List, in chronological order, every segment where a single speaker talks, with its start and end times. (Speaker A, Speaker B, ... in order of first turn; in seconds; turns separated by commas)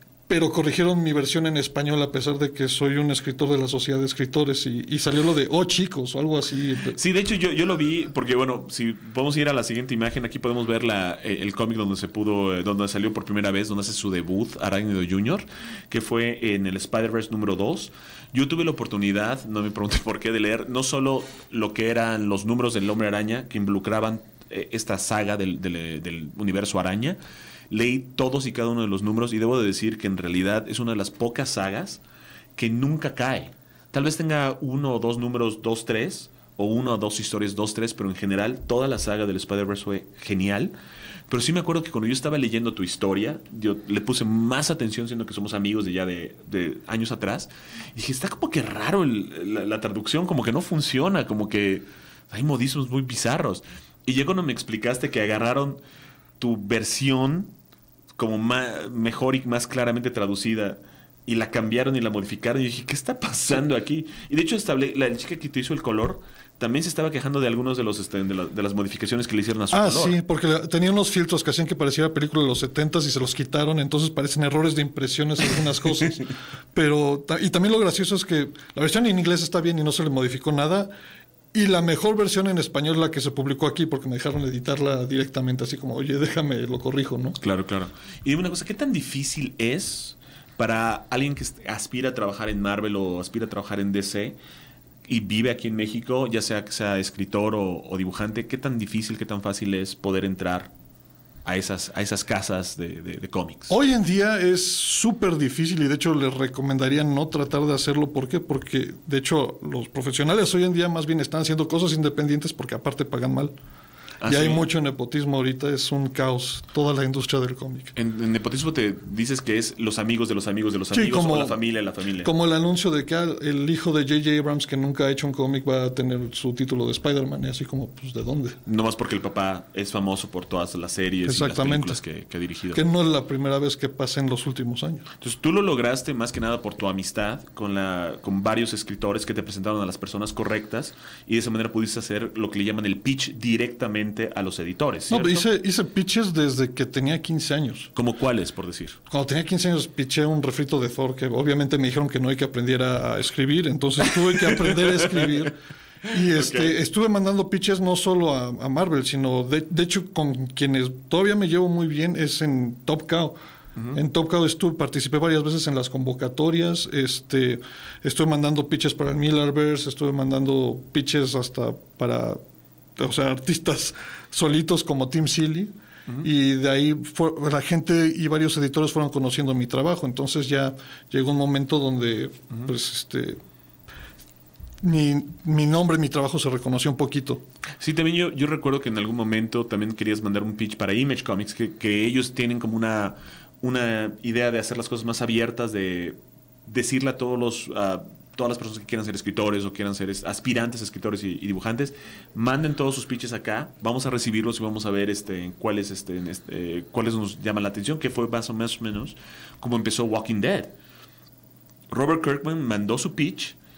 Speaker A: 0.3-7.0, Speaker B: 6.9-27.2, Speaker B: 27.7-32.0, Speaker B: 32.5-40.7, Speaker B: 41.3-55.8, Speaker B: 56.4-57.5, Speaker B: 58.1-70.2, Speaker A: 69.7-80.9, Speaker A: 81.5-87.4, Speaker B: 87.4-94.4, Speaker B: 95.0-100.7, Speaker B: 101.4-103.7, Speaker A: 103.7-113.5, Speaker B: 114.2-114.7, Speaker A: 114.2-117.9, Speaker B: 117.9-122.3, Speaker A: 120.9-121.6, Speaker A: 122.2-128.6, Speaker B: 128.7-132.8, Speaker A: 131.2-132.0, Speaker A: 132.7-135.1, Speaker B: 135.2-145.5, Speaker A: 145.1-147.9, Speaker B: 147.9-149.0, Speaker A: 149.1-155.6, Speaker B: 154.2-155.4, Speaker B: 156.1-156.7, Speaker A: 156.1-163.4, Speaker A: 163.9-172.4, Speaker A: 173.0-183.4, Speaker A: 184.8-187.4, Speaker B: 187.8-210.8, Speaker B: 211.9-213.6